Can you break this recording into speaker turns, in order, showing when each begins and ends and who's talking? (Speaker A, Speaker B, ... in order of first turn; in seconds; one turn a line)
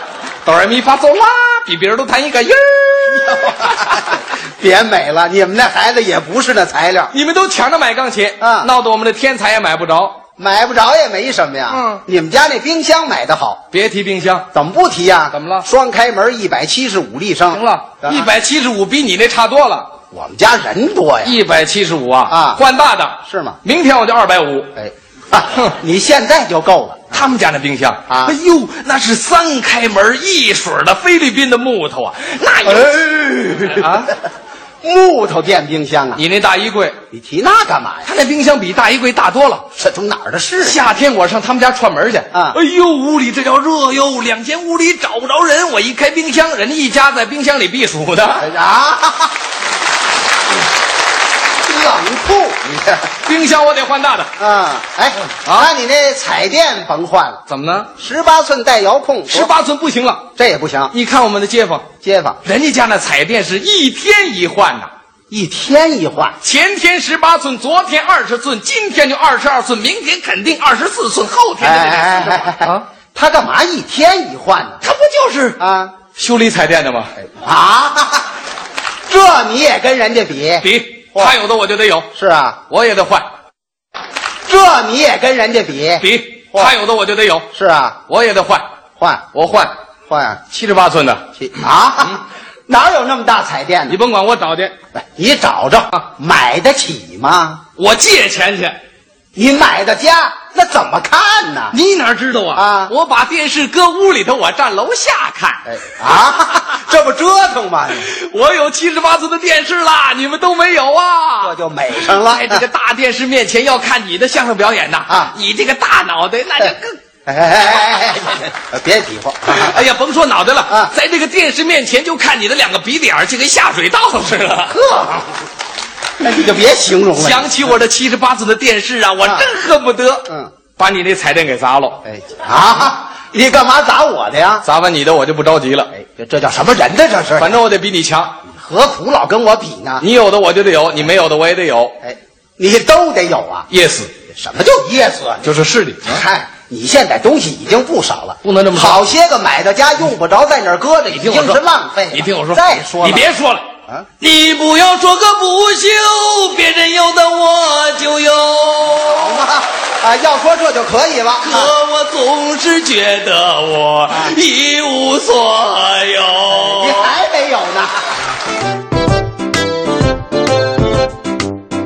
Speaker A: 0.4-4.0
Speaker B: 3.1-7.1
Speaker A: 7.1-10.2
Speaker B: 8.4-8.7
Speaker B: 10.4-13.6
Speaker A: 11.7-12.0
Speaker A: 13.7-14.5
Speaker B: 14.5-18.3
Speaker A: 15.3-15.7
Speaker A: 17.5-19.9
Speaker B: 20.1-21.4
Speaker A: 21.2-24.7
Speaker B: 22.3-22.6
Speaker B: 23.2-23.6
Speaker B: 24.8-27.2
Speaker A: 27.1-34.1
Speaker B: 28.1-28.4
Speaker B: 32.6-34.1
Speaker B: 34.8-36.2
Speaker A: 36.1-37.0
Speaker B: 37.1-38.1
Speaker A: 38.0-39.7
Speaker B: 39.8-40.8
Speaker A: 40.6-48.5
Speaker B: 42.3-42.6
Speaker B: 48.4-49.3
Speaker B: 51.6-53.1
Speaker A: 53.2-54.3
Speaker B: 54.4-57.4
Speaker A: 55.4-55.7
Speaker A: 57.5-57.9
Speaker B: 58.0-59.5
Speaker A: 59.3-60.3
Speaker B: 60.4-60.9
Speaker A: 60.9-61.9
Speaker B: 62.0-62.4
Speaker A: 62.4-64.9
Speaker B: 65.3-66.4
Speaker A: 66.4-72.8
Speaker B: 71.6-74.8
Speaker A: 74.8-75.6
Speaker B: 75.6-76.0
Speaker A: 76.1-77.1
Speaker B: 77.2-78.3
Speaker B: 79.1-81.3
Speaker A: 80.6-82.1
Speaker B: 82.1-82.6
Speaker A: 82.7-83.3
Speaker B: 84.5-86.7
Speaker A: 86.0-87.5
Speaker B: 87.5-88.0
Speaker A: 88.1-88.7
Speaker B: 89.0-89.3
Speaker A: 89.3-89.7
Speaker B: 90.1-90.4
Speaker A: 90.5-91.2
Speaker B: 91.4-94.0
Speaker A: 93.9-94.7
Speaker B: 94.9-97.6
Speaker A: 97.8-98.8
Speaker B: 99.3-101.8
Speaker A: 101.7-105.6
Speaker B: 102.5-102.9
Speaker B: 105.7-108.0
Speaker A: 108.0-117.0
Speaker B: 111.4-112.6
Speaker B: 115.1-115.3
Speaker B: 116.6-119.8
Speaker A: 119.5-124.8
Speaker B: 124.7-125.4
Speaker B: 126.2-127.7
Speaker A: 127.2-132.0
Speaker B: 132.0-134.6
Speaker A: 134.6-135.9
Speaker B: 135.9-137.6
Speaker A: 137.4-138.3
Speaker B: 138.5-140.1
Speaker A: 140.0-141.9
Speaker B: 142.0-143.7
Speaker A: 143.7-144.1
Speaker B: 144.3-145.5
Speaker A: 145.4-146.2
Speaker B: 146.0-153.3
Speaker A: 148.4-149.0
Speaker A: 151.1-151.6
Speaker A: 152.1-153.6
Speaker A: 154.2-159.4
Speaker B: 159.0-161.7
Speaker A: 161.4-167.1
Speaker B: 164.1-164.4
Speaker B: 166.5-168.1